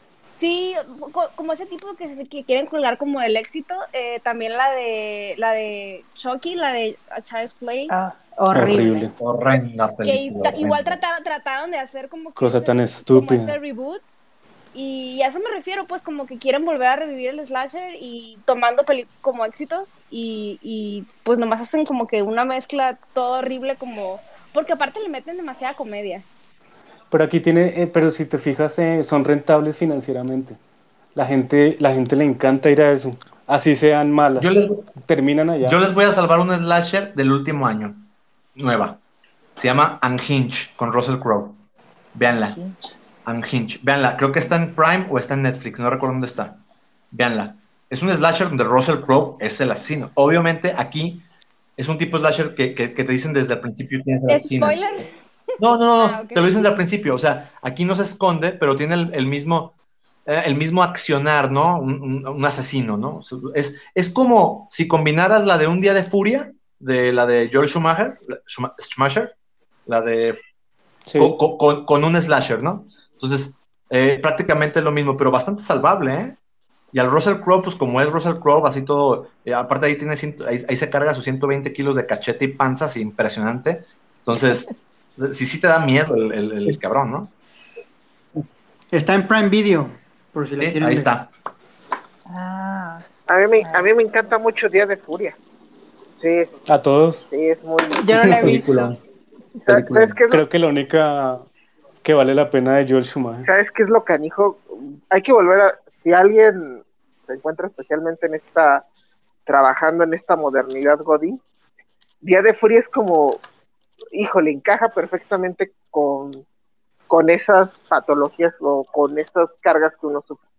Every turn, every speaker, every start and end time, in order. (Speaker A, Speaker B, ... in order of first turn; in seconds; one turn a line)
Speaker A: 0.4-7.9
Speaker B: 7.9-9.1
Speaker C: 8.5-9.1
Speaker D: 9.2-11.0
Speaker A: 10.0-14.0
Speaker C: 12.4-13.6
Speaker A: 14.7-26.2
Speaker C: 27.1-30.6
Speaker C: 31.1-35.8
Speaker D: 34.4-34.9
Speaker D: 35.6-39.0
Speaker D: 39.6-41.6
Speaker D: 42.1-42.6
Speaker B: 42.3-42.9
Speaker D: 43.2-51.2
Speaker D: 51.8-54.8
Speaker A: 54.3-55.1
Speaker D: 55.6-69.3
Speaker A: 56.0-56.5
Speaker D: 69.8-70.4
Speaker C: 71.1-71.3
Speaker D: 71.2-76.4
Speaker D: 76.9-87.3
Speaker E: 88.3-91.1
Speaker D: 90.6-91.3
Speaker B: 92.3-93.0
Speaker F: 93.3-95.4
Speaker B: 93.6-93.9
Speaker F: 96.2-96.5
Speaker C: 96.7-97.2
Speaker F: 97.3-98.3
Speaker B: 98.0-98.9
Speaker C: 98.2-98.7
Speaker D: 98.2-99.0
Speaker F: 99.7-100.4
Speaker D: 99.7-100.1
Speaker C: 100.3-101.4
Speaker C: 102.0-103.5
Speaker F: 103.5-108.8
Speaker F: 109.5-111.4
Speaker F: 112.2-113.4
Speaker F: 114.1-116.4
Speaker F: 117.1-120.4